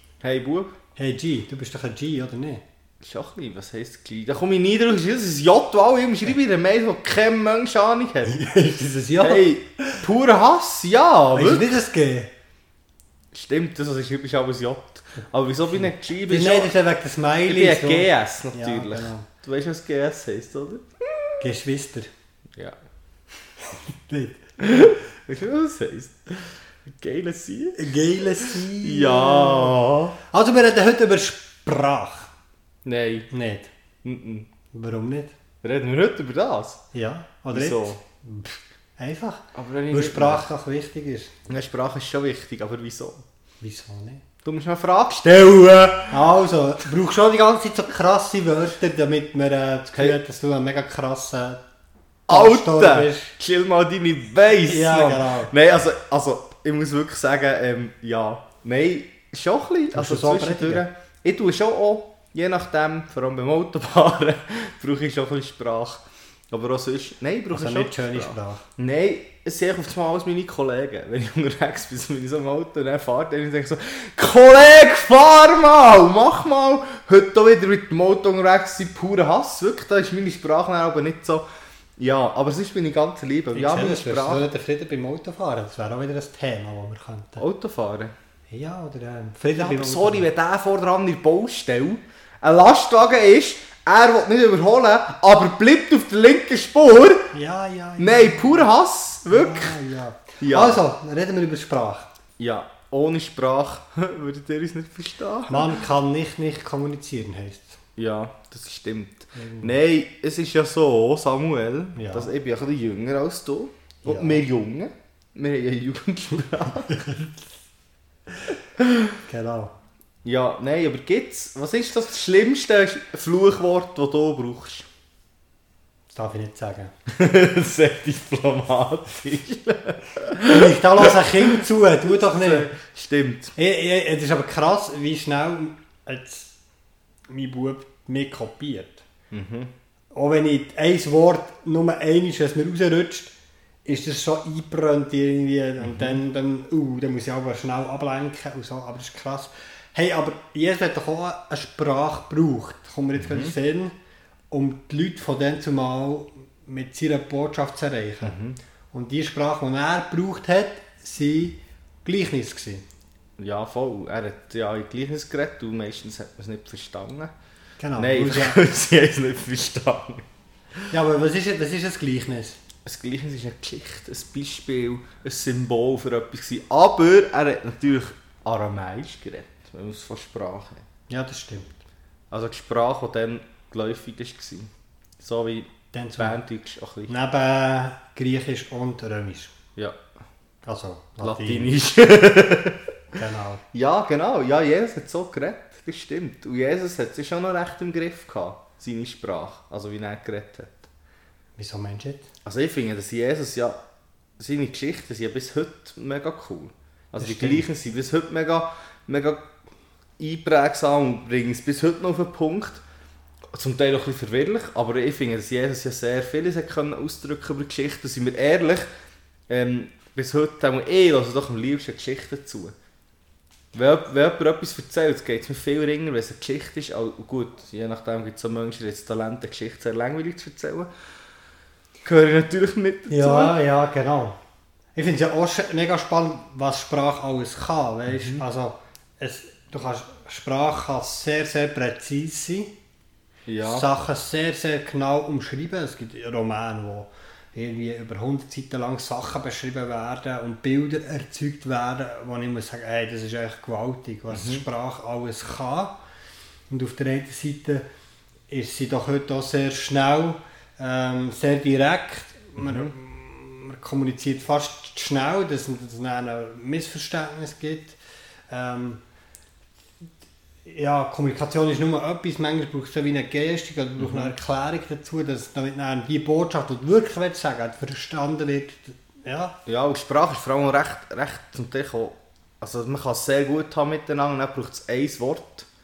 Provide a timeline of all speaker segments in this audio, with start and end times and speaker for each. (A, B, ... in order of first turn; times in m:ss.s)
0:00.2-0:00.7 A
0:01.0-0:02.6 B
0:03.0-0:08.4 A
0:08.2-0:10.0 B
0:09.2-0:11.8 A
0:11.3-0:12.3 B
0:13.3-0:16.7 A
0:16.3-0:19.3 B
0:17.5-0:21.4 A
0:21.4-0:22.1 B
0:24.1-0:24.7 B
0:24.6-0:30.1 A
0:27.8-0:32.3 B
0:32.8-0:33.3 A
0:33.3-0:33.7 B
0:34.0-0:34.5 A
0:34.7-0:35.3 B
0:35.6-0:36.8 A
0:36.9-0:41.3 B
0:37.5-0:38.0 A
0:39.5-0:40.4 A
0:41.5-0:43.2 A
0:43.6-0:44.2 B
0:44.4-0:46.2 A
0:46.1-0:51.6 B
0:52.3-0:53.3 B
0:52.3-1:21.4 A
0:54.6-0:55.5 B
0:59.9-1:00.8 B
1:07.5-1:08.6 B
1:22.0-1:24.5 A
1:23.5-1:27.4 B
1:27.4-1:28.1 A
1:28.5-1:30.3 B
1:29.5-1:37.3 A
1:37.3-1:38.7 B
1:38.0-1:39.8 A
1:39.3-1:42.1 B
1:40.4-1:40.8 A
1:42.4-1:45.8 A
1:45.5-1:47.8 B
1:48.0-1:57.2 A
1:49.3-1:49.8 B
1:52.0-1:52.3 B
1:54.0-1:54.4 B
1:59.2-1:59.7 B
2:00.2-2:04.9 A
2:06.1-2:06.9 B
2:07.1-2:13.5 A
2:10.5-2:12.7 B
2:13.6-2:16.5 B
2:17.3-2:19.0 B
2:19.3-2:19.7 A
2:20.1-2:23.3 B
2:23.8-2:33.9 B
2:25.8-2:26.2 A
2:33.2-2:33.5 A
2:34.5-2:38.4 B
2:38.2-2:38.6 A
2:38.9-2:42.8 B
2:43.4-2:47.3 A
2:47.8-2:48.6 B
2:48.0-2:50.2 A
2:50.9-2:52.6 B
2:52.8-3:00.8 A
3:01.1-3:01.8 B
3:02.3-3:07.1 A
3:05.9-3:06.4 B
3:07.1-3:09.5 B
3:10.6-3:11.7 B
3:11.2-3:12.8 A
3:13.2-3:13.6 B
3:13.7-3:20.8 A
3:21.6-3:22.3 B
3:22.4-3:23.8 A
3:24.4-3:29.4 A
3:27.2-3:27.6 B
3:30.2-3:32.8 A
3:33.5-3:38.9 A
3:39.5-3:42.7 A
3:43.7-3:50.9 A
3:52.0-3:53.6 A
3:53.1-3:54.4 B
3:55.0-4:02.7 B
3:58.1-3:58.4 A
4:03.5-4:03.9 A
4:03.6-4:15.9 B
4:14.3-4:14.6 A
4:16.7-4:17.8 B
4:18.5-4:28.0 B
4:22.6-4:22.9 A
4:28.5-4:29.0 B
4:30.6-4:39.6 B
4:34.0-4:34.3 A
4:39.6-4:45.7 A